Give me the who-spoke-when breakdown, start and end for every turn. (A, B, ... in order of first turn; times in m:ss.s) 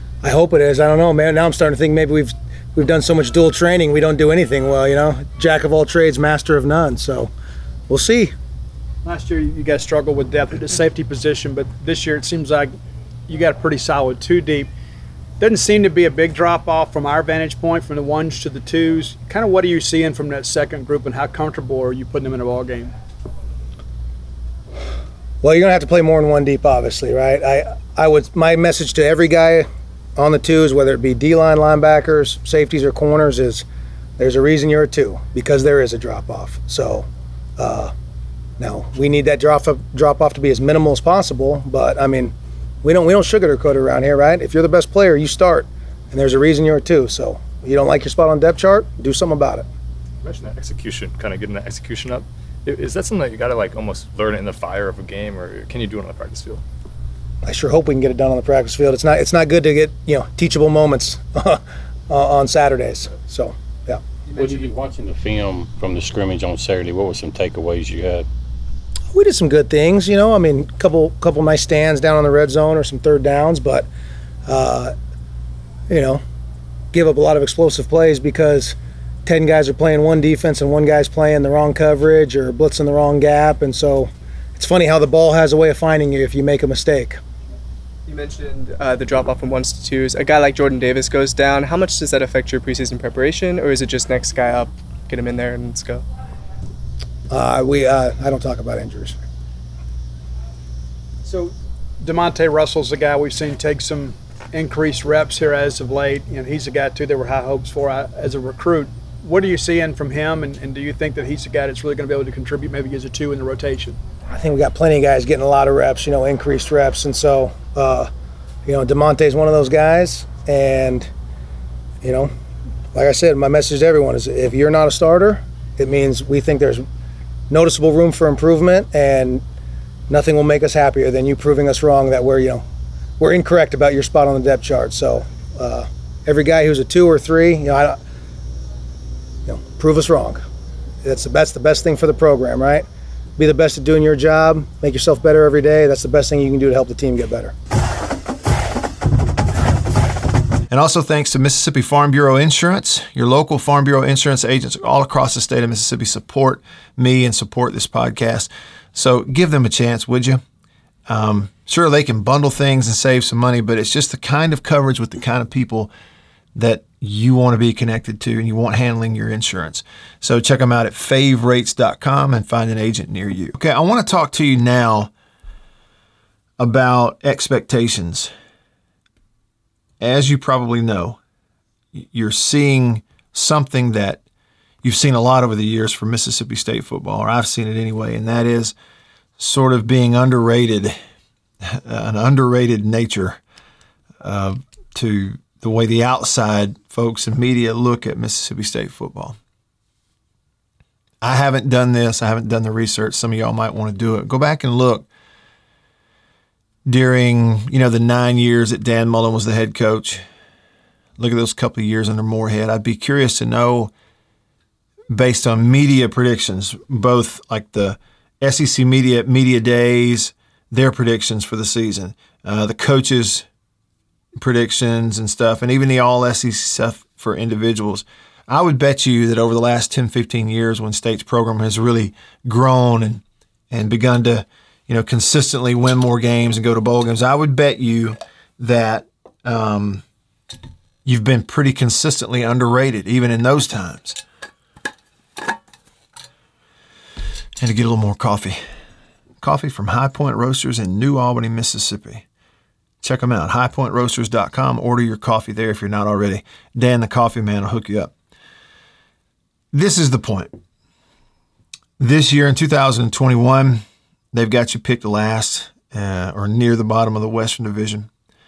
0:00.2-0:07.3 A
0:07.9-0:08.3 A
0:09.0-0:12.7 B
0:13.3-0:14.7 B
0:15.4-0:22.9 B
0:25.4-0:33.6 A
0:34.2-0:37.1 A
0:37.6-0:37.9 A
0:38.6-0:49.7 A
0:50.2-0:56.6 C
0:57.4-1:04.0 A
1:04.3-1:08.2 D
1:09.1-1:13.9 A
1:14.4-1:14.9 A
1:15.9-1:16.2 A
1:16.9-1:27.2 A
1:28.1-1:36.0 E
1:37.3-1:39.2 A
1:41.2-1:54.0 B
1:54.3-1:58.1 A
1:58.6-2:01.1 A
2:02.0-2:02.3 A
2:02.9-2:06.8 A
2:07.5-2:09.4 A
2:10.1-2:12.6 A
2:13.2-2:18.0 A
2:19.4-2:20.4 A
2:21.0-2:22.8 A
2:23.4-2:27.5 A
2:30.7-2:40.4 F
2:41.1-2:45.9 F
2:46.5-2:55.1 F
2:56.6-2:58.3 F
3:00.0-3:01.2 F
3:01.9-3:04.2 F
3:04.8-3:08.7 F
3:09.4-3:11.0 F
3:11.6-3:13.4 F
3:14.2-3:19.4 F
3:21.2-3:25.0 F
3:26.8-3:30.2 F
3:31.2-3:33.9 F
3:35.1-3:43.4 F
3:44.4-4:00.0 F
4:01.0-4:04.2 F
4:07.6-4:08.6 F
4:09.4-4:12.2 F
4:13.0-4:18.1 F
4:19.7-4:20.6 F
4:22.0-4:28.1 F